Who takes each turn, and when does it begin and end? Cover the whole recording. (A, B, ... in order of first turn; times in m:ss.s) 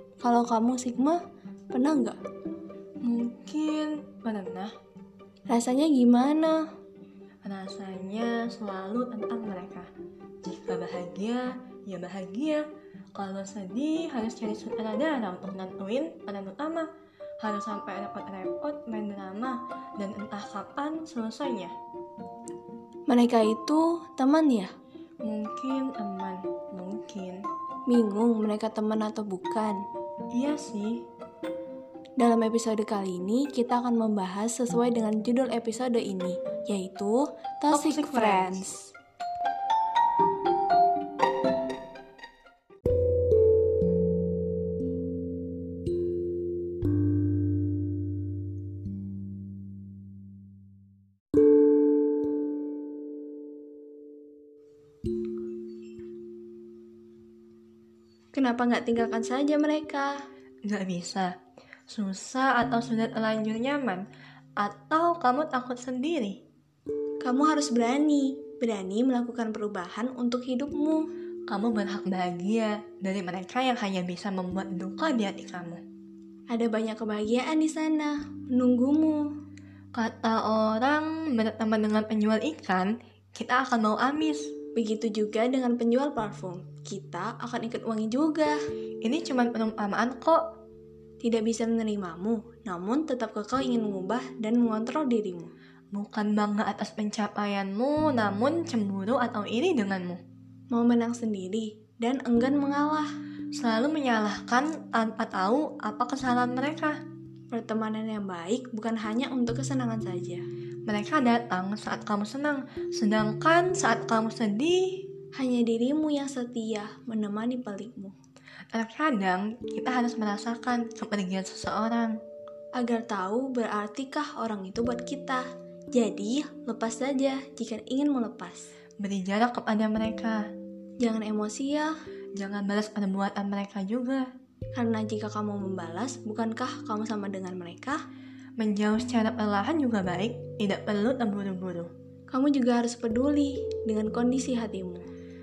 0:00.2-0:01.2 A
0:01.7-0:02.2 A
0:03.0-0:04.7 B
0:05.5-0:06.6 A
0:07.4-0:09.9 B
0:10.4-0:12.6 B
0:13.2-0:16.9 B
0:17.4-0:21.7 B
0:23.1-0:24.7 A
0:25.2-0:27.4 B
0:27.9-0:29.8 A
0:30.3-0:31.0 B
0:32.2-0:38.8 A
0:37.7-0:38.7 B
0:58.3-1:00.1 A
1:00.6-1:01.3 B
1:01.9-1:04.0 B
1:04.6-1:06.4 B
1:07.2-1:11.1 A
1:11.5-1:15.8 B
1:16.5-1:19.2 A
1:19.9-1:24.5 B
1:24.8-1:28.6 A
1:29.0-1:30.4 B
1:31.2-1:35.5 A
1:35.9-1:40.2 B
1:40.7-1:43.1 A
1:43.6-1:47.0 B
1:47.5-1:50.4 A
1:50.9-1:55.0 B
1:55.4-1:58.2 A
1:58.7-2:02.2 B
2:02.8-2:08.7 A
2:09.0-2:10.4 B
2:11.0-2:11.9 A
2:12.4-2:14.2 B
2:14.8-2:18.0 A
2:18.6-2:21.9 B
2:22.3-2:25.1 A